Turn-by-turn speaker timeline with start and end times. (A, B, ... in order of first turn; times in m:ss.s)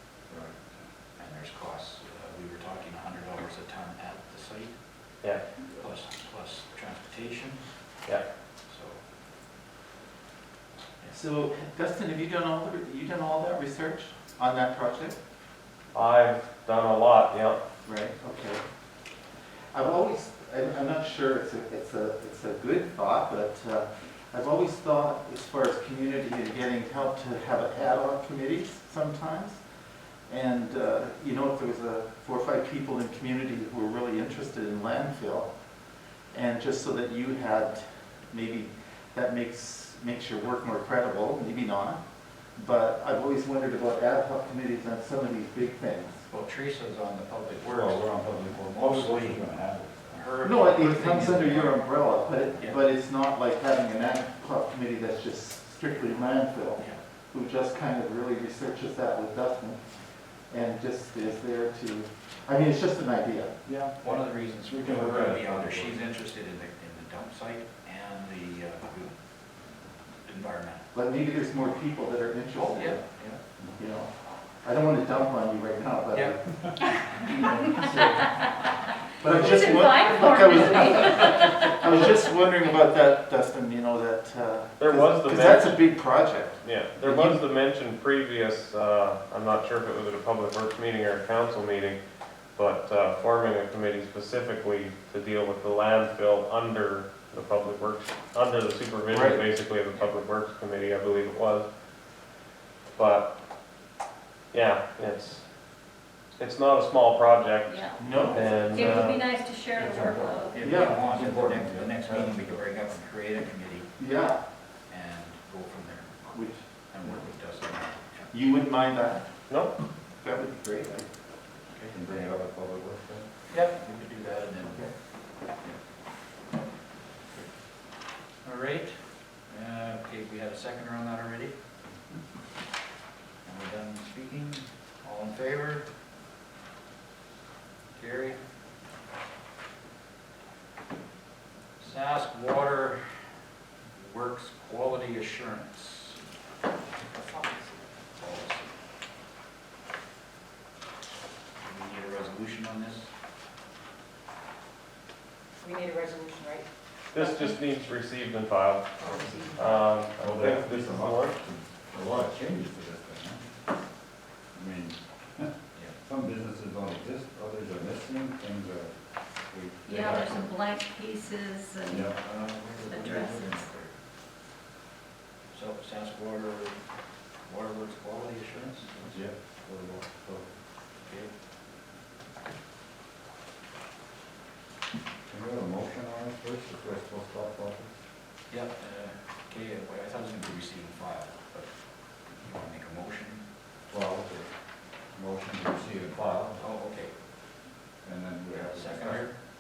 0:00.3-0:00.8 A
0:01.2-0:04.8 B
0:05.7-0:07.6 B
0:08.7-0:09.0 B
0:11.1-0:15.2 C
0:15.9-0:17.6 D
0:17.8-0:18.6 C
0:19.7-0:29.6 C
0:30.3-0:35.5 C
0:36.3-0:42.0 C
0:42.6-0:46.2 C
0:46.3-0:49.5 B
0:47.6-0:50.2 A
0:50.1-0:51.9 B
0:50.4-0:59.8 C
0:52.5-0:52.8 B
1:00.5-1:03.5 C
1:03.6-1:06.0 A
1:04.0-1:09.2 B
1:10.3-1:10.8 B
1:10.9-1:13.0 C
1:12.5-1:13.4 B
1:13.8-1:14.1 C
1:14.6-1:18.4 C
1:17.8-1:18.1 E
1:19.2-1:27.4 C
1:19.2-1:22.0 E
1:24.8-1:25.8 D
1:26.6-1:32.0 D
1:32.6-1:41.7 D
1:39.1-1:39.5 C
1:43.0-1:43.3 D
1:44.5-1:45.4 D
1:46.4-1:49.2 D
1:47.7-1:51.0 E
1:48.0-1:49.2 C
1:49.8-1:52.6 A
1:50.5-1:53.9 B
1:50.6-1:51.0 C
1:54.0-1:54.4 C
1:54.9-1:56.2 B
1:56.3-1:57.1 C
1:56.9-1:58.3 B
1:58.3-1:59.3 C
1:59.5-1:59.7 D
2:00.2-2:01.1 C
2:01.7-2:02.3 B
2:01.9-2:03.3 A
2:03.5-2:04.9 B
2:04.6-2:04.9 C
2:08.4-2:09.0 B
2:09.5-2:11.6 B
2:13.4-2:15.9 B
2:18.0-2:18.4 B
2:21.8-2:23.0 B
2:24.0-2:26.2 B
2:27.2-2:27.8 F
2:28.2-2:28.7 B
2:31.6-2:33.1 B
2:35.6-2:37.5 F
2:37.1-2:41.4 D
2:39.0-2:39.9 F
2:40.2-2:43.5 A
2:44.5-2:45.5 A
2:46.0-2:48.9 A
2:49.5-2:50.5 A
2:49.8-2:52.1 E
2:51.9-2:53.7 A
2:52.4-2:53.9 B
2:52.8-2:53.6 E
2:55.5-2:56.8 B
2:57.5-2:59.2 B
2:59.0-3:00.5 A
3:01.0-3:01.3 B
3:05.3-3:07.9 A
3:08.5-3:11.7 B
3:12.4-3:13.4 B
3:13.9-3:14.5 A
3:15.2-3:16.6 A
3:16.6-3:17.1 B
3:18.0-3:19.3 A
3:18.5-3:19.3 B